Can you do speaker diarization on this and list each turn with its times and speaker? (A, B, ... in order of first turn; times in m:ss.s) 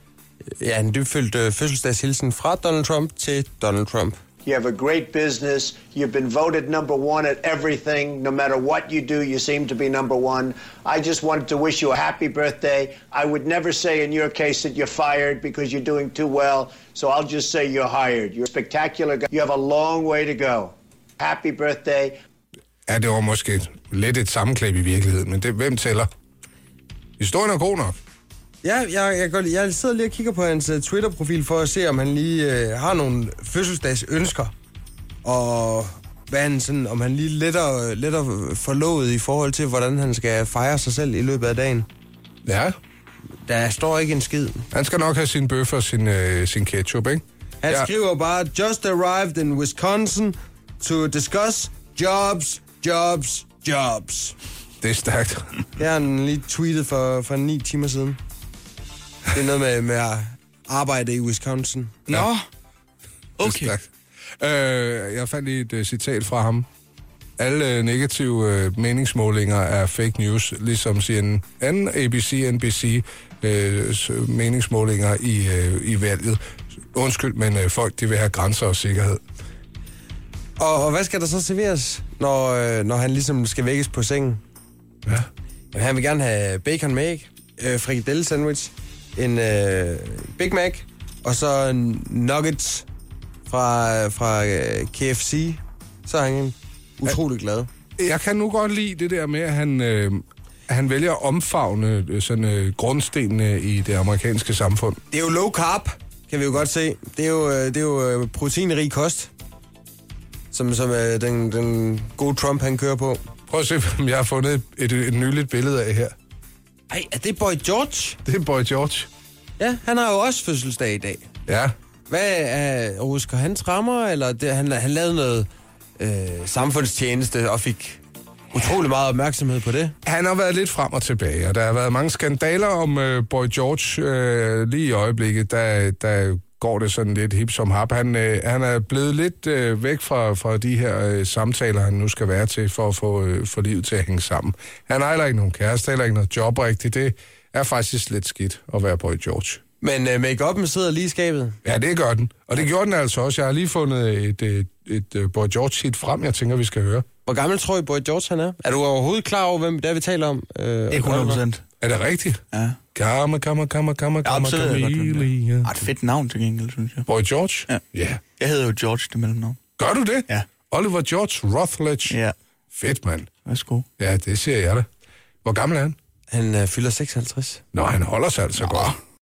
0:00.6-0:04.2 A
0:04.4-0:22.2 B
0:22.9-0:26.1 C
0:27.2-0:28.0 C
0:28.6-0:34.5 A
0:35.2-0:41.9 A
0:42.4-0:42.7 C
0:43.4-0:44.6 A
0:44.7-0:47.9 C
0:47.6-0:54.4 A
0:54.8-0:55.7 C
0:55.8-0:58.2 A
0:59.3-1:02.0 A
1:02.1-1:02.5 D
1:03.4-1:03.7 D
1:03.4-1:03.9 C
1:04.4-1:06.7 C
1:07.4-1:16.4 C
1:16.9-1:19.2 C
1:20.6-1:24.4 A
1:25.7-1:32.9 A
1:33.5-1:37.7 A
1:38.0-1:45.0 C
1:45.1-1:49.3 A
1:50.5-1:53.2 A
1:53.5-1:56.1 C
1:56.9-1:58.2 A
1:58.2-1:59.1 C
1:59.6-2:01.3 A
2:01.5-2:01.7 C
2:02.1-2:08.0 A
2:08.5-2:10.0 A
2:10.0-2:29.6 C
2:29.8-2:31.6 A
2:31.6-2:37.1 C
2:37.3-2:41.4 A
2:40.9-2:41.6 D
2:41.8-2:42.4 C
2:42.5-2:42.8 D
2:42.9-2:45.7 C
2:44.2-2:47.1 D
2:47.1-2:48.2 C
2:48.4-2:49.6 D
2:49.8-2:52.2 C
2:52.1-2:52.4 D
2:52.8-2:53.3 C
2:53.5-2:53.9 D
2:54.0-2:54.9 C
2:55.4-2:56.0 C
2:56.3-2:57.6 A
2:57.7-2:58.9 C